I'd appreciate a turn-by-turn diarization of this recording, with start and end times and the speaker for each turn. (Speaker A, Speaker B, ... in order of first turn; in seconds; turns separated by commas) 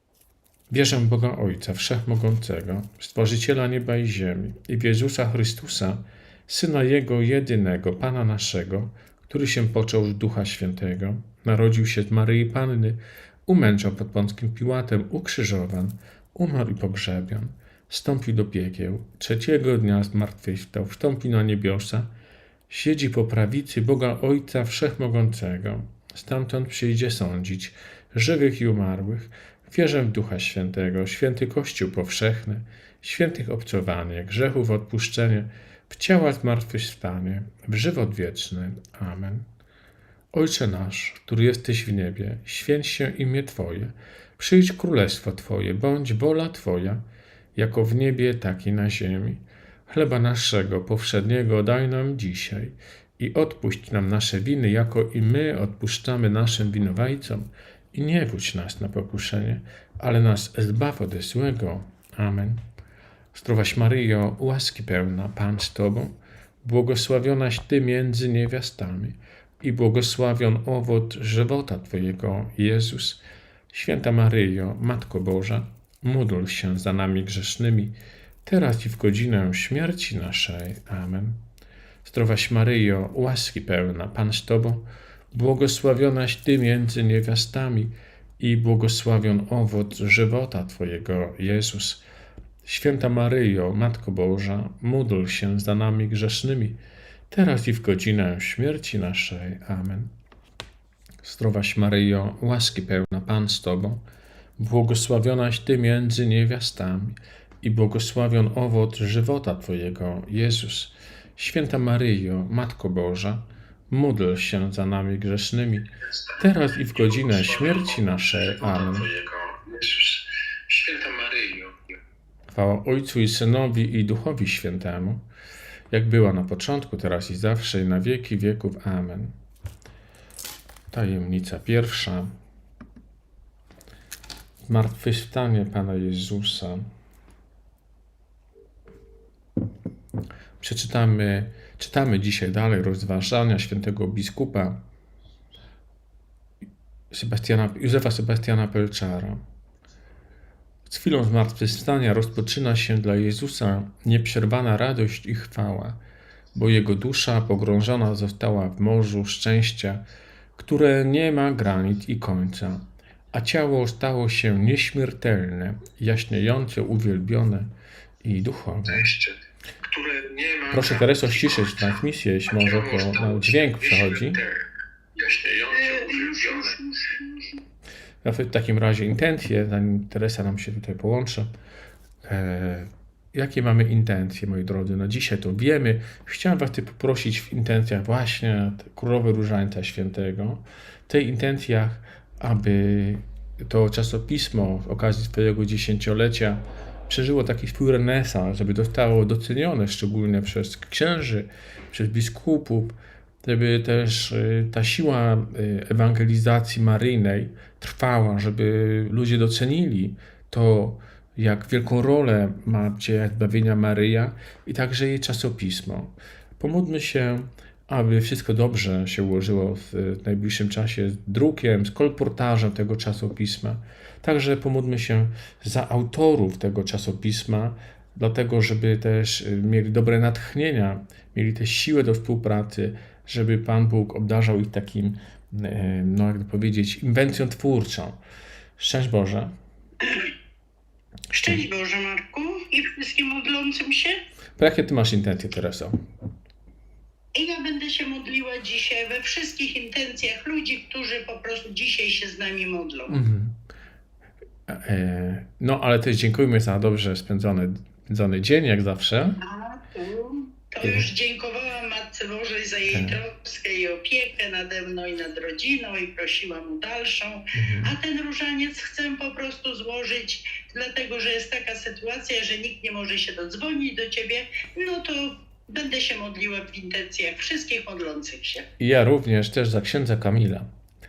Speaker A: 0.7-22.1, Speaker A: 22.7-39.5, Speaker A: 40.3-47.0, Speaker A: 47.5-62.6, Speaker A: 63.3-77.9, Speaker A: 78.5-81.4, Speaker A: 82.0-92.0, Speaker A: 92.6-96.8, Speaker A: 97.3-100.1, Speaker A: 101.2-104.0, Speaker A: 104.6-119.1, Speaker B: 116.9-121.8, Speaker A: 122.5-125.2, Speaker A: 125.9-129.3, Speaker A: 130.9-132.3, Speaker A: 134.7-136.9, Speaker A: 140.6-144.8, Speaker A: 147.1-149.4, Speaker A: 150.9-156.0, Speaker A: 156.5-160.0, Speaker A: 160.6-167.7, Speaker A: 168.2-169.1, Speaker B: 168.9-174.6, Speaker A: 170.7-174.4, Speaker B: 175.2-176.8, Speaker C: 175.7-177.6, Speaker A: 178.2-181.5, Speaker A: 182.2-238.2, Speaker A: 238.8-239.5, Speaker C: 240.0-240.3, Speaker C: 241.3-244.2, Speaker A: 244.6-246.0, Speaker C: 247.3-253.2, Speaker A: 253.1-253.6, Speaker A: 254.7-259.4, Speaker C: 259.4-278.7, Speaker A: 260.8-261.1, Speaker A: 262.9-263.2, Speaker A: 267.5-268.0, Speaker A: 278.8-280.7